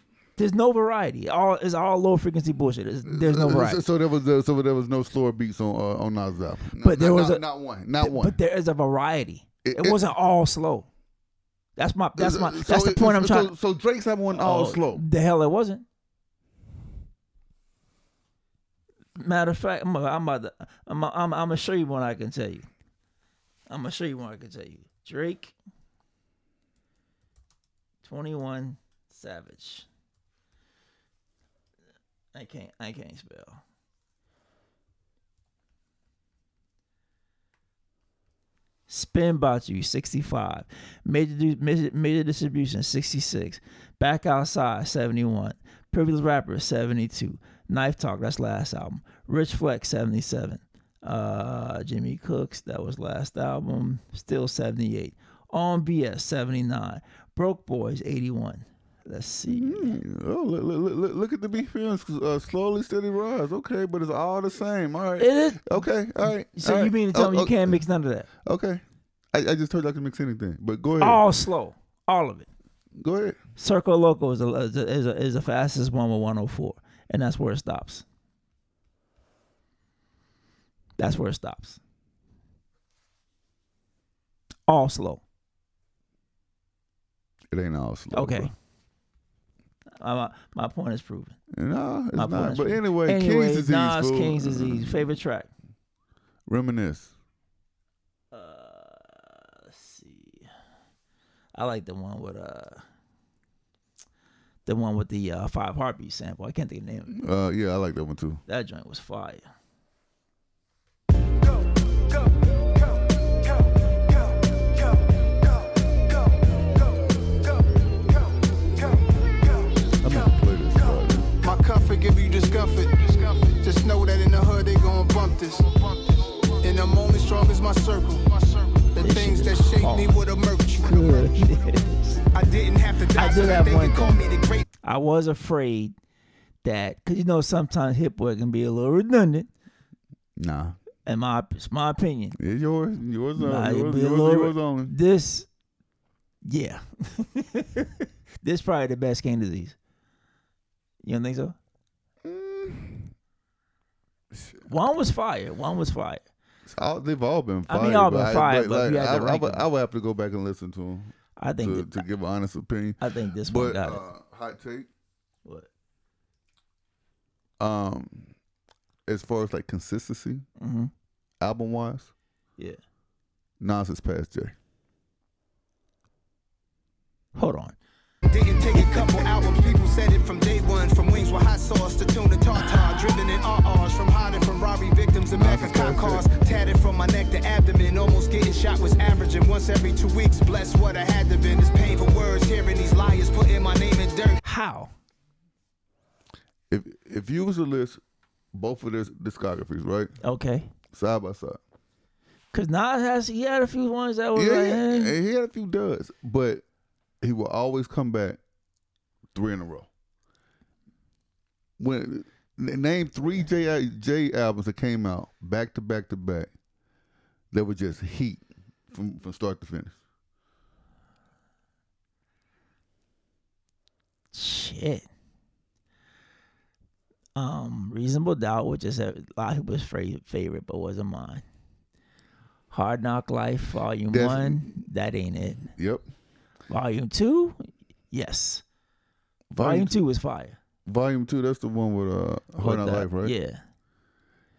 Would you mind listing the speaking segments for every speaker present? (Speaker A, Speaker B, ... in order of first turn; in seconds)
Speaker A: 0.4-3.8, 6.8-7.5, 8.0-10.9, 11.8-13.5, 14.3-15.8, 19.2-22.7, 23.7-25.5, 28.0-29.9, 32.3-33.6, 38.9-60.0, 65.2-68.3, 71.0-72.5, 73.6-78.0, 81.0-81.8, 84.7-85.2, 88.1-88.5, 90.0-91.4, 92.1-95.5, 98.3-100.5, 101.5-102.8, 104.7-107.2, 108.5-109.5, 129.0-130.2, 130.8-132.2, 133.1-134.2, 134.8-135.9, 136.6-139.5, 141.1-142.4, 143.4-145.5, 146.4-149.8, 151.0-151.6, 154.7-156.2, 157.7-159.6, 161.4-162.0, 163.0-164.0, 170.6-170.9, 177.3-177.8, 182.6-182.9, 194.4-194.9, 200.2-200.7, 202.5-205.1, 224.3-225.1, 227.4-231.4, 232.7-235.7, 236.7-238.6, 239.6-240.6, 242.6-243.6
Speaker B: 3.0-8.4, 9.6-10.0, 12.2-15.1, 59.5-67.8, 68.4-71.2, 73.0-73.4, 87.5-88.5, 91.5-95.1, 96.5-97.1, 107.1-108.4, 120.0-121.3, 140.4-140.8, 142.4-144.9, 152.2-153.1, 154.3-154.6, 156.7-164.9, 167.6-168.3, 169.1-170.4, 171.4-172.1, 173.6-174.6, 185.3-186.3, 196.7-198.0, 198.5-200.1, 200.9-201.6, 204.3-206.6, 207.2-208.4, 209.3-209.9, 211.8-216.5, 217.5-220.0, 234.1-234.7, 235.8-236.0, 239.5-239.9, 240.9-243.3
Speaker C: 114.2-120.3, 121.4-131.6, 132.3-134.6, 178.3-194.4